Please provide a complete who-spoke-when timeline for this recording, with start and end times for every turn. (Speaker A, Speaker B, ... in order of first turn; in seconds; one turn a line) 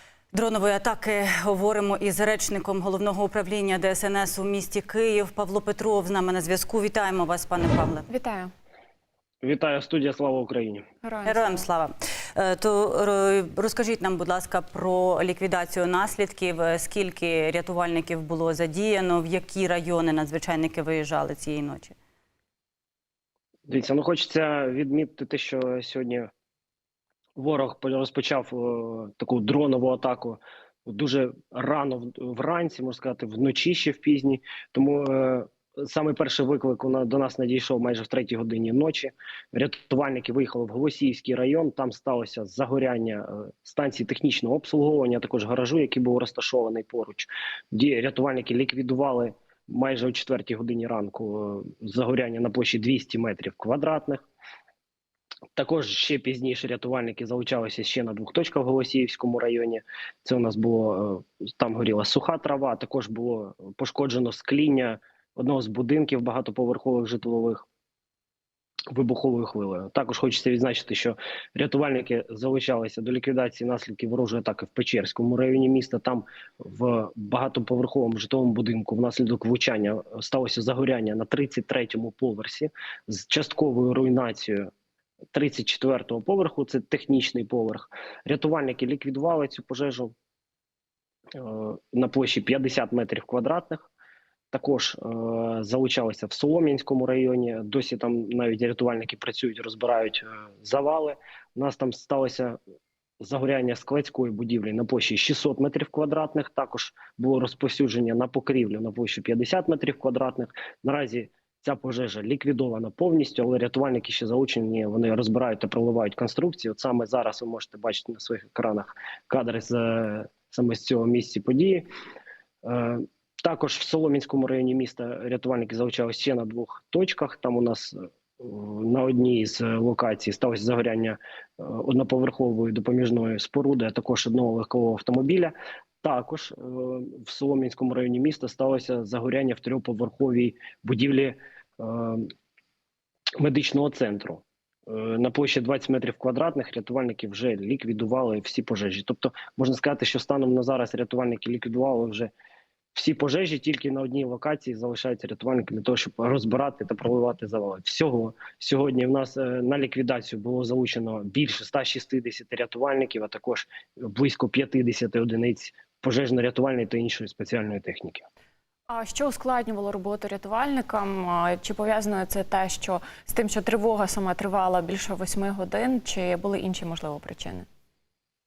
Speaker A: 0.3-8.1
Speaker B: 8.1-8.5
Speaker C: 9.4-10.8
Speaker B: 11.0-11.6
Speaker A: 11.2-21.9
Speaker C: 23.7-26.3
Speaker C: 27.4-54.2
Speaker C: 55.5-67.6
Speaker C: 68.9-84.7
Speaker C: 85.3-90.1
Speaker C: 91.3-93.9
Speaker C: 94.5-102.6
Speaker C: 103.2-121.9
Speaker C: 122.6-142.3
Speaker C: 143.4-152.3
Speaker C: 152.9-168.2
Speaker B: 168.9-177.7